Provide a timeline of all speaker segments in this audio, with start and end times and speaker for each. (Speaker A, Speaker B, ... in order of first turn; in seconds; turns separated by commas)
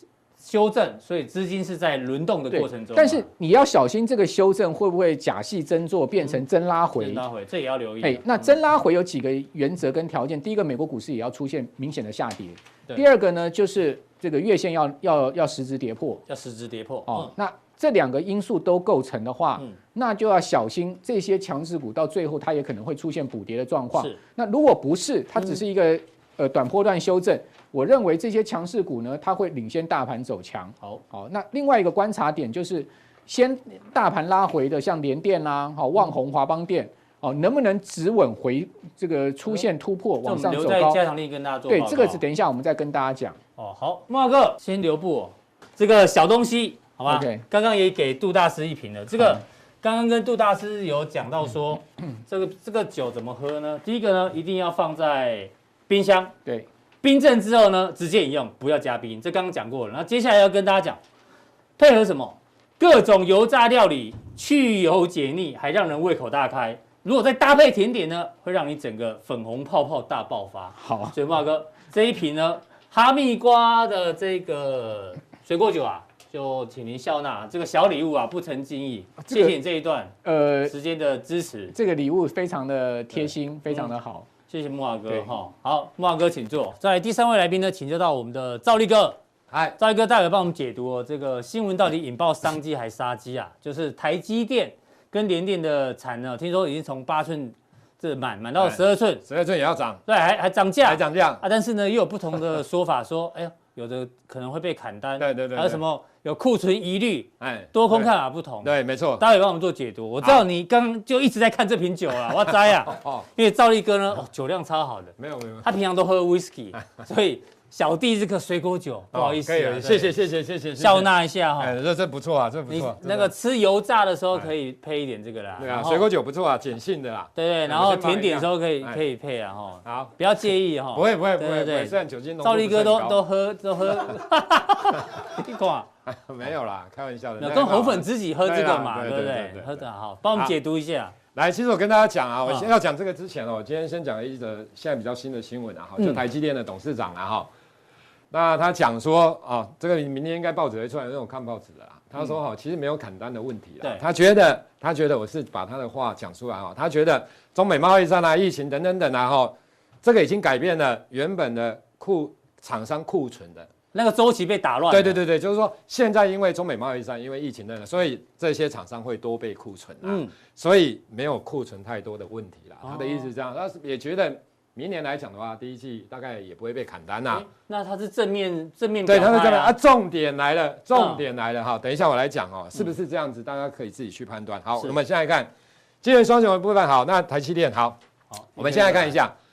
Speaker A: 0.4-3.3, Speaker B: 2.5-7.2, Speaker A: 7.0-8.5, Speaker B: 8.0-16.2, Speaker A: 16.3-17.3, Speaker B: 17.1-41.0, Speaker A: 23.9-24.2, Speaker A: 40.2-42.2, Speaker B: 41.7-43.4, Speaker A: 43.6-56.3, Speaker B: 47.1-47.4, Speaker A: 57.0-61.0, Speaker A: 61.8-80.2, Speaker B: 70.8-71.2, Speaker B: 79.2-79.6, Speaker B: 80.2-80.7, Speaker A: 80.7-81.7, Speaker B: 81.7-84.3, Speaker A: 83.1-83.9, Speaker A: 84.5-89.2, Speaker C: 89.5-89.8, Speaker A: 89.8-99.2, Speaker C: 98.6-100.0, Speaker A: 100.1-120.1, Speaker C: 100.8-101.4, Speaker C: 105.2-105.8, Speaker C: 107.4-108.1, Speaker C: 108.6-109.2, Speaker C: 112.8-113.2, Speaker C: 115.2-115.7, Speaker C: 119.1-123.3, Speaker A: 120.8-121.7, Speaker A: 122.7-126.1, Speaker C: 125.6-129.0, Speaker A: 127.4-135.9, Speaker C: 129.8-130.1, Speaker C: 130.9-133.2, Speaker C: 134.9-135.3, Speaker C: 136.1-140.6, Speaker A: 137.4-141.2, Speaker C: 141.3-147.5, Speaker C: 148.3-163.7, Speaker A: 163.9-165.2, Speaker C: 164.9-177.5, Speaker A: 170.0-170.3, Speaker A: 172.8-173.3, Speaker A: 177.3-179.7, Speaker C: 179.1-185.5, Speaker A: 180.9-181.2, Speaker C: 186.0-188.0, Speaker A: 188.3-189.2, Speaker C: 188.6-189.3